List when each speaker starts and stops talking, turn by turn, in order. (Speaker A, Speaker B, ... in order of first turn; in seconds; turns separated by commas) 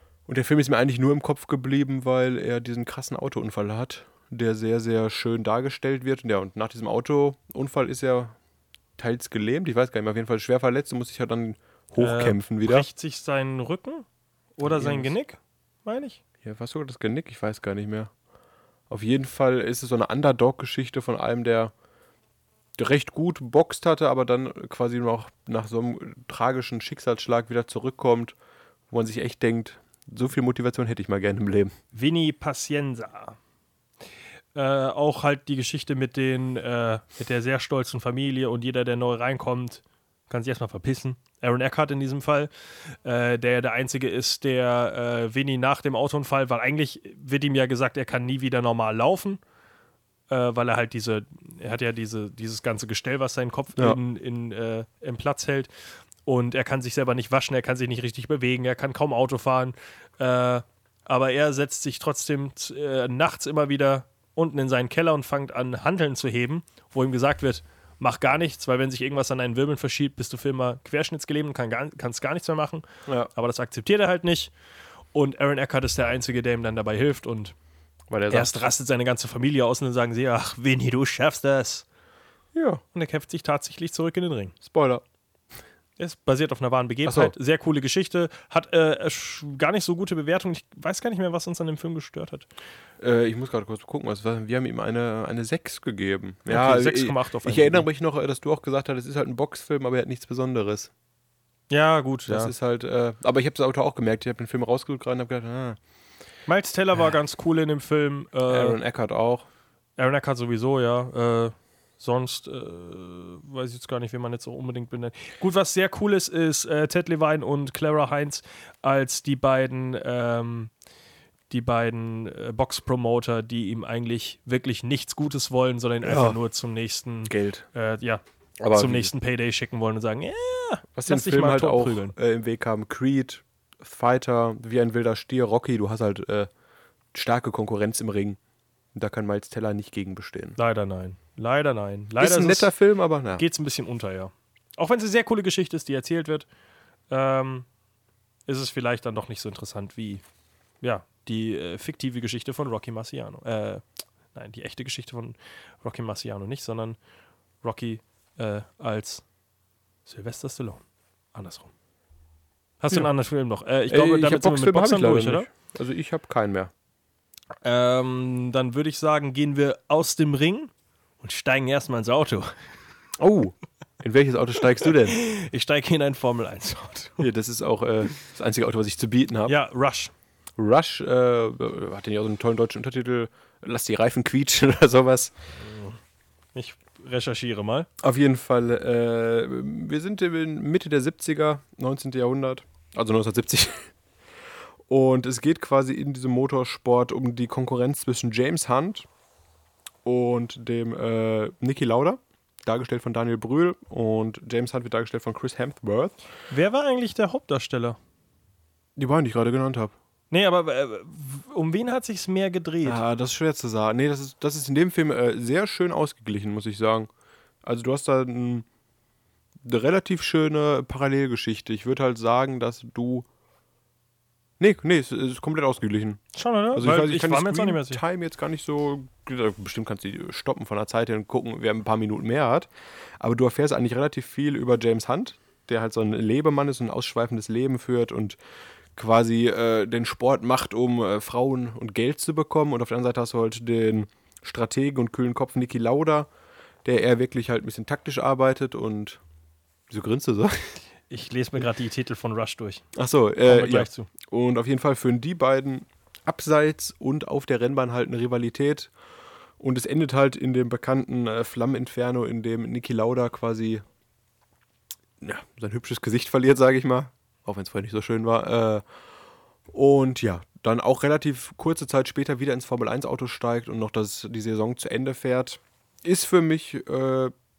Speaker A: 0.3-8.4, Speaker A: 9.0-12.9, Speaker B: 12.0-14.1, Speaker B: 14.6-16.2, Speaker A: 14.6-15.1, Speaker A: 16.4-18.1, Speaker A: 18.9-21.7, Speaker A: 22.8-28.4, Speaker A: 28.9-31.7, Speaker B: 31.9-33.4, Speaker B: 34.5-49.4, Speaker B: 50.3-55.7, Speaker B: 56.2-72.8, Speaker B: 73.3-74.5, Speaker B: 75.1-77.5, Speaker A: 78.1-78.5, Speaker B: 78.3-81.9, Speaker A: 82.5-82.8, Speaker B: 82.9-84.6, Speaker A: 84.6-85.0, Speaker B: 86.0-92.5, Speaker A: 87.1-87.3, Speaker A: 93.0-100.9, Speaker B: 96.5-97.9, Speaker B: 101.7-102.5, Speaker A: 102.3-105.8, Speaker B: 106.5-108.8, Speaker A: 108.5-109.5, Speaker B: 110.0-120.7, Speaker B: 121.5-132.2, Speaker A: 126.0-126.4, Speaker A: 127.3-127.7, Speaker A: 128.6-129.1, Speaker A: 131.0-136.5, Speaker A: 137.1-138.4, Speaker A: 138.9-140.6, Speaker B: 140.6-142.7, Speaker A: 142.2-143.4, Speaker B: 143.4-146.5, Speaker B: 147.1-147.7, Speaker B: 148.5-150.2, Speaker B: 150.8-157.0, Speaker B: 157.6-159.2, Speaker B: 160.1-161.7, Speaker B: 162.8-165.5, Speaker A: 163.9-166.7, Speaker B: 167.6-172.5, Speaker A: 173.2-175.2, Speaker B: 175.1-177.2, Speaker A: 177.2-179.6, Speaker B: 179.5-180.1, Speaker A: 180.6-185.3, Speaker B: 185.6-186.0, Speaker B: 186.6-187.9, Speaker A: 188.0-193.9, Speaker A: 194.9-199.1, Speaker A: 200.1-206.1, Speaker B: 206.5-208.0, Speaker A: 209.0-209.9, Speaker B: 210.3-213.0, Speaker A: 212.8-217.1, Speaker A: 217.6-218.7, Speaker A: 219.6-223.3, Speaker A: 224.6-238.4, Speaker B: 226.3-228.0, Speaker A: 238.9-246.3, Speaker A: 246.8-249.2, Speaker A: 249.9-250.8, Speaker B: 251.1-252.9, Speaker A: 252.9-258.9, Speaker B: 253.4-254.1, Speaker A: 259.6-263.8, Speaker A: 265.2-268.8, Speaker A: 269.7-277.3